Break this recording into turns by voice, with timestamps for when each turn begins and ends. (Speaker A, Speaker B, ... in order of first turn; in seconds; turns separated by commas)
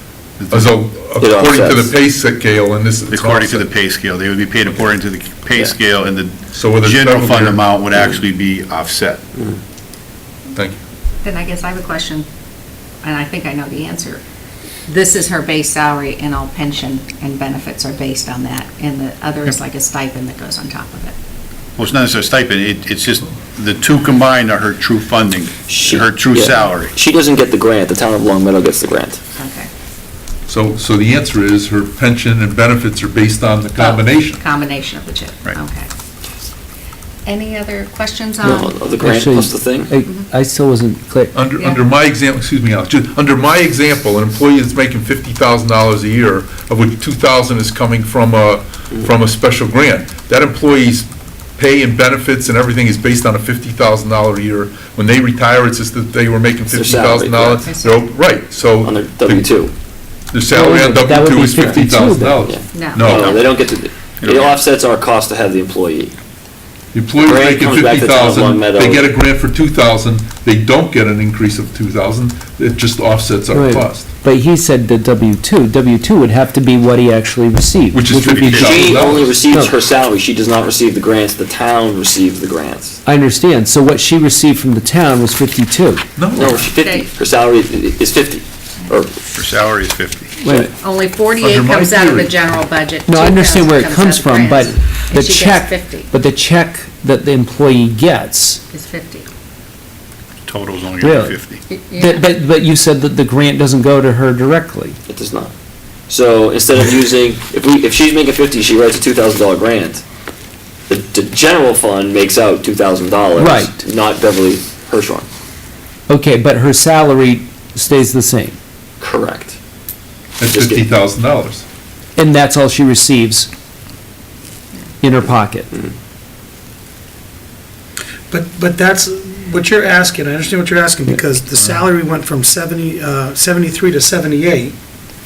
Speaker A: 0.4-0.7, Speaker B: 0.5-3.7, Speaker C: 1.2-1.9, Speaker A: 3.1-9.2, Speaker B: 6.5-7.6, Speaker D: 11.2-12.2, Speaker D: 13.0-14.2, Speaker D: 14.9-21.1, Speaker A: 21.8-27.0, Speaker C: 25.7-29.2, Speaker D: 29.4-29.7, Speaker B: 30.5-34.4, Speaker D: 33.8-35.9, Speaker D: 37.2-38.9, Speaker E: 38.4-41.4, Speaker C: 38.4-40.0, Speaker B: 41.3-59.5, Speaker D: 41.5-41.8, Speaker C: 56.7-57.7, Speaker D: 57.7-58.0, Speaker C: 58.8-59.7, Speaker B: 60.3-63.4, Speaker E: 60.5-62.4, Speaker C: 61.5-61.8, Speaker C: 62.4-66.1, Speaker D: 62.7-63.1, Speaker A: 63.0-63.5, Speaker A: 64.2-64.6, Speaker B: 66.9-74.1, Speaker C: 67.2-69.1, Speaker E: 73.5-78.8, Speaker B: 77.9-79.4, Speaker A: 78.3-78.9, Speaker C: 78.6-83.0, Speaker E: 79.5-79.8, Speaker E: 83.0-86.0, Speaker B: 86.2-86.7, Speaker C: 86.3-89.2, Speaker D: 86.5-87.1, Speaker A: 89.3-90.4, Speaker D: 90.6-96.1, Speaker B: 91.4-92.6, Speaker E: 93.0-98.6, Speaker D: 98.7-99.3, Speaker A: 100.5-101.6, Speaker E: 101.0-101.4, Speaker D: 101.7-102.3, Speaker E: 101.9-105.0, Speaker C: 105.1-105.5, Speaker C: 106.1-110.0, Speaker C: 110.9-115.2, Speaker E: 113.4-113.8, Speaker E: 116.1-118.6, Speaker C: 119.0-119.5, Speaker B: 120.4-121.6, Speaker C: 120.5-120.8, Speaker E: 122.2-123.5, Speaker E: 125.0-125.7, Speaker F: 128.3-134.7